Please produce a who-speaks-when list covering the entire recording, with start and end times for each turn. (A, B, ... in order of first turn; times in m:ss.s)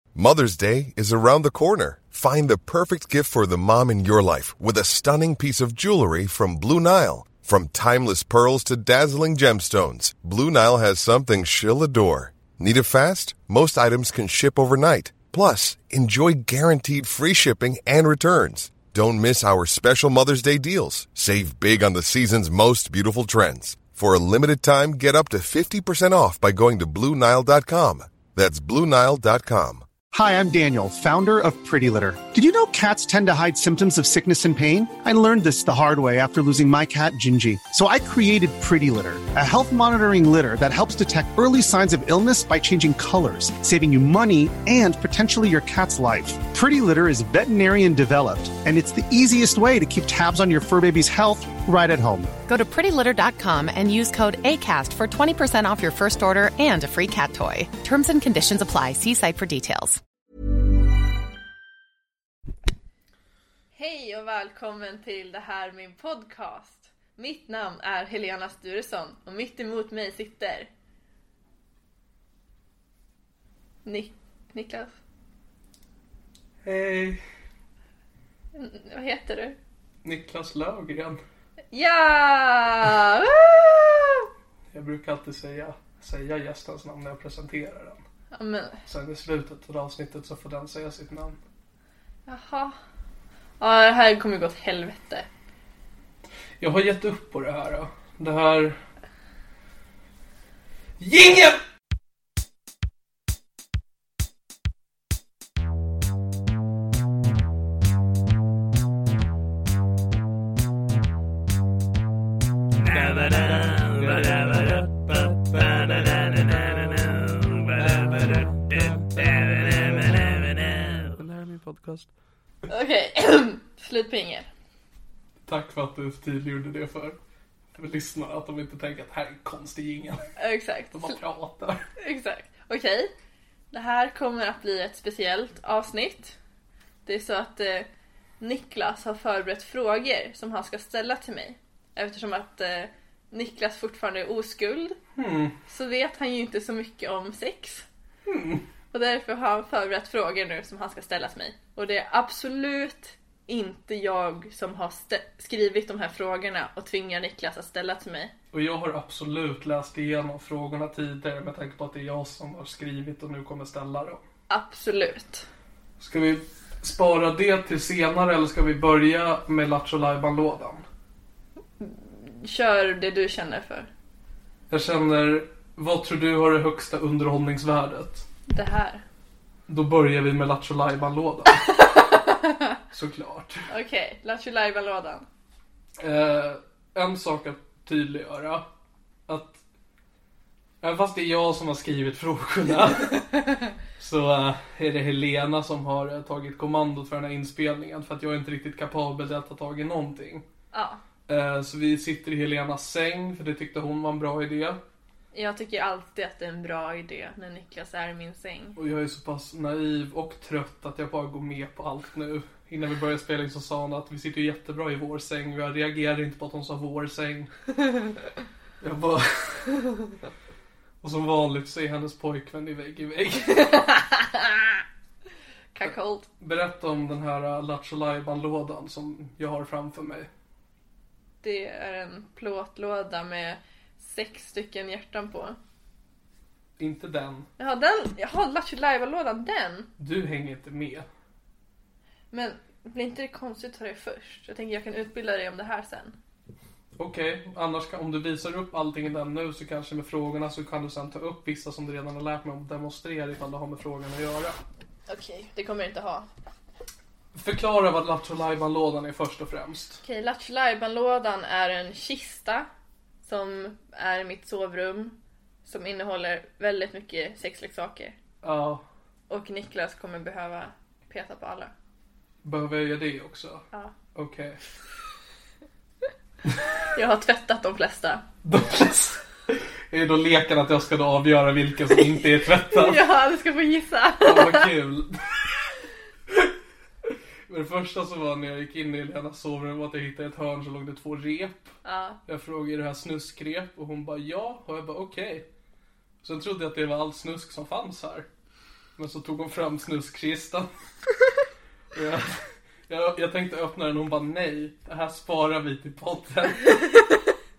0:00.2-0:29.8 A
0:30.1-0:52.3 B
0:52.5-1:00.0 C
1:03.8-1:10.7 D
1:13.8-1:14.9 D
1:16.6-1:17.2 E
1:18.5-1:19.6 D
1:20.0-1:21.2 E
1:21.7-1:24.3 D
1:24.7-1:28.0 E
1:28.3-1:28.8 D
1:28.9-1:31.4 E
1:32.3-1:32.8 D
1:33.6-1:35.3 D
1:36.6-1:38.8 E
1:41.0-1:41.6 E
1:52.8-2:02.1 E
2:02.7-2:04.5 D
2:05.5-2:07.2 E
2:07.8-2:10.3 E
2:10.4-2:11.2 D
2:10.9-2:11.8 E
2:12.0-2:13.1 D
2:13.7-2:16.4 D
2:17.0-2:17.9 D
2:18.4-2:25.0 D
2:25.2-2:25.6 E
2:25.7-2:27.9 D
2:28.3-2:28.6 E
2:28.9-2:38.3 D
2:38.5-2:44.2 E
2:44.5-2:45.5 D
2:46.0-2:50.8 E
2:51.8-2:53.9 D
2:54.7-2:58.2 E
2:58.5-2:59.0 D
2:59.7-3:01.8 E
3:01.7-3:02.8 D
3:02.9-3:03.6 E
3:03.7-3:05.3 D
3:06.0-3:08.7 E
3:09.3-3:09.6 E
3:10.8-3:13.3 E
3:14.0-3:20.4 E
3:20.7-3:21.0 D
3:21.3-3:24.8 E
3:25.3-3:28.8 D
3:28.8-3:37.5 E
3:38.8-3:40.1 E
3:41.0-3:43.7 E
3:43.5-3:44.8 D
3:45.7-3:46.3 D
3:45.8-3:50.3 E
3:51.4-3:55.6 D
3:56.8-3:57.5 E
3:57.6-3:59.9 D
4:00.0-4:01.1 E
4:02.3-4:06.2 D
4:07.0-4:14.6 E
4:15.1-4:16.3 D
4:17.3-4:20.0 E
4:20.0-4:22.7 D
4:23.2-4:28.2 D
4:28.4-4:28.8 E
4:29.3-4:31.7 D
4:32.4-4:34.6 E
4:37.0-4:38.2 D
4:38.4-4:43.0 E
4:42.6-4:44.7 D
4:44.2-4:45.4 E
4:47.5-4:51.8 E
4:51.8-4:52.2 D
4:52.3-4:55.5 E
4:56.2-4:58.3 E
4:59.0-5:00.7 E
5:01.9-5:06.9 E